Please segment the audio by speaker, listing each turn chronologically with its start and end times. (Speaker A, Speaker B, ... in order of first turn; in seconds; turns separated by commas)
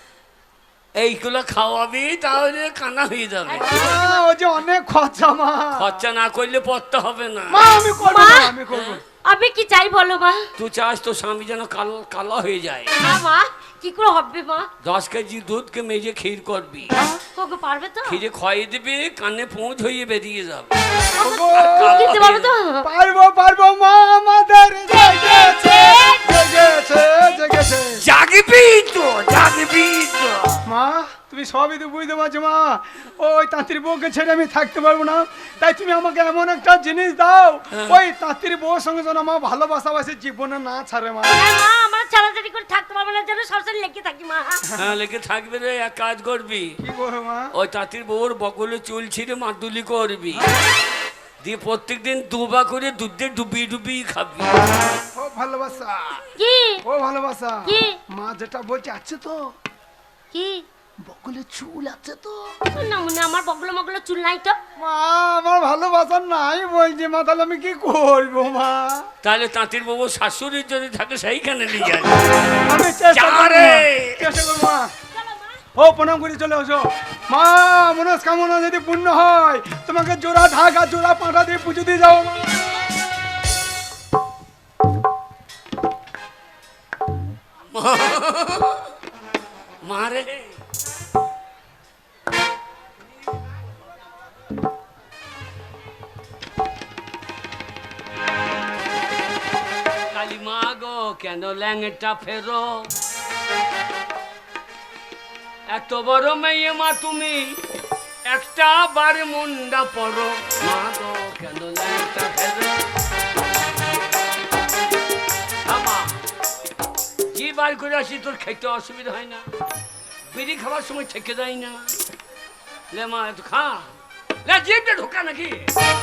Speaker A: 0.9-3.7, Speaker B: 3.5-4.2, Speaker C: 3.6-6.0, Speaker A: 5.7-7.7, Speaker C: 7.5-9.0, Speaker B: 8.0-8.6, Speaker A: 8.7-9.0, Speaker B: 9.2-10.5, Speaker A: 10.6-12.9, Speaker B: 13.0-14.7, Speaker A: 14.8-17.0, Speaker C: 16.9-17.2, Speaker B: 17.3-18.2, Speaker A: 18.1-22.5, Speaker B: 21.1-22.9, Speaker C: 21.2-22.1, Speaker C: 22.8-28.0, Speaker B: 24.9-26.3, Speaker A: 27.9-30.6, Speaker C: 30.6-41.4, Speaker A: 37.7-38.0, Speaker B: 41.3-44.7, Speaker A: 44.8-46.8, Speaker C: 46.8-47.5, Speaker A: 47.5-50.5, Speaker A: 51.4-54.6, Speaker C: 55.1-56.2, Speaker B: 56.4-56.8, Speaker C: 56.8-59.4, Speaker B: 57.6-58.0, Speaker B: 60.3-60.6, Speaker C: 61.0-62.6, Speaker B: 62.6-64.6, Speaker C: 64.8-69.1, Speaker A: 69.2-72.4, Speaker C: 72.7-74.9, Speaker A: 73.1-74.3, Speaker B: 75.1-75.6, Speaker C: 75.7-82.7, Speaker A: 87.7-88.9, Speaker A: 89.8-90.6, Speaker A: 100.1-102.9, Speaker A: 105.7-107.6, Speaker A: 108.2-112.8, Speaker A: 115.6-116.2, Speaker A: 117.3-119.5, Speaker A: 120.3-122.0, Speaker A: 122.9-123.9, Speaker A: 124.4-125.7